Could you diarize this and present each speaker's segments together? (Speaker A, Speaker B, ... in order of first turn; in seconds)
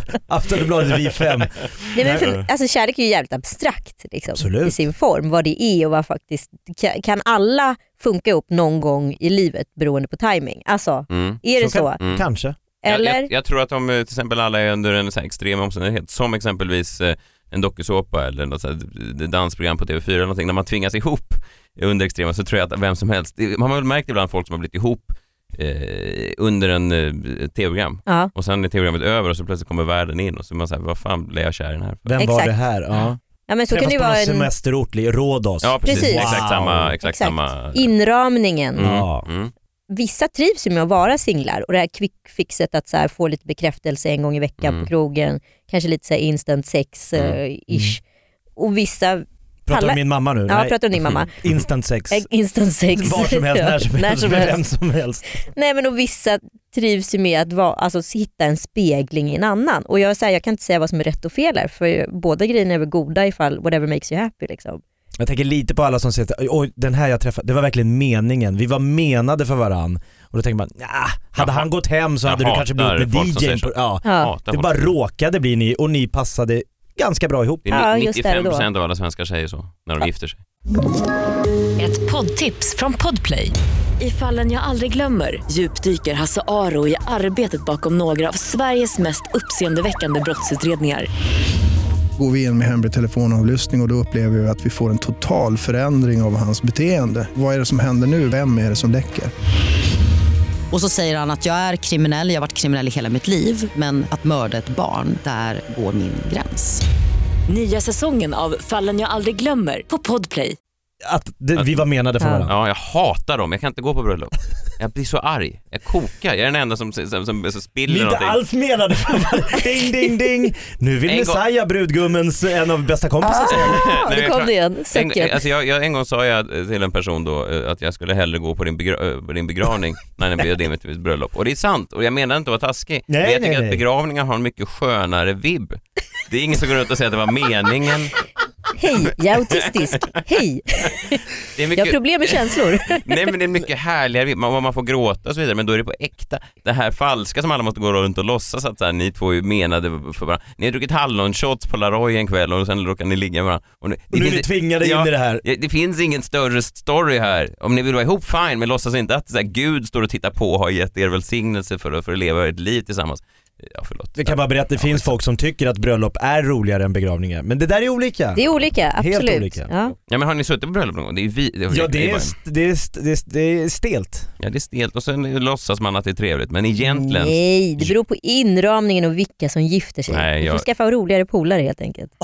Speaker A: 0.3-2.3, 4.4-4.8, 11.6-12.6, 32.1-33.2, 33.7-36.9, 38.8-39.3, 47.7-48.0, 49.7-52.3, 53.0-55.2, 65.2-77.7, 111.0-112.5, 117.9-123.8, 133.1-133.8, 154.1-155.4, 164.2-169.7, 171.7-174.3
Speaker B: 1.9-12.0, 12.8-13.3, 32.2-32.5, 33.5-34.5, 35.9-36.4, 37.0-38.9, 39.9-48.0, 48.6-51.3, 52.1-54.6, 55.4-64.8, 77.7-78.7, 112.2-112.5, 123.2-125.4, 138.8-141.2, 141.8-143.3, 168.3-169.9, 176.8-182.1
Speaker C: 11.1-11.4, 12.0-12.3, 12.9-32.1, 35.6-37.9, 38.8-39.5, 44.6-44.9, 71.4-71.7, 72.2-74.9, 77.7-80.4, 111.6-111.8, 112.5-118.4, 121.1-121.4, 123.5-138.2, 141.6-165.1, 170.1-172.3, 174.4-177.9, 180.1-180.7
Speaker D: 81.8-91.1, 107.5-110.6
Speaker E: 92.2-99.3
Speaker F: 100.7-106.8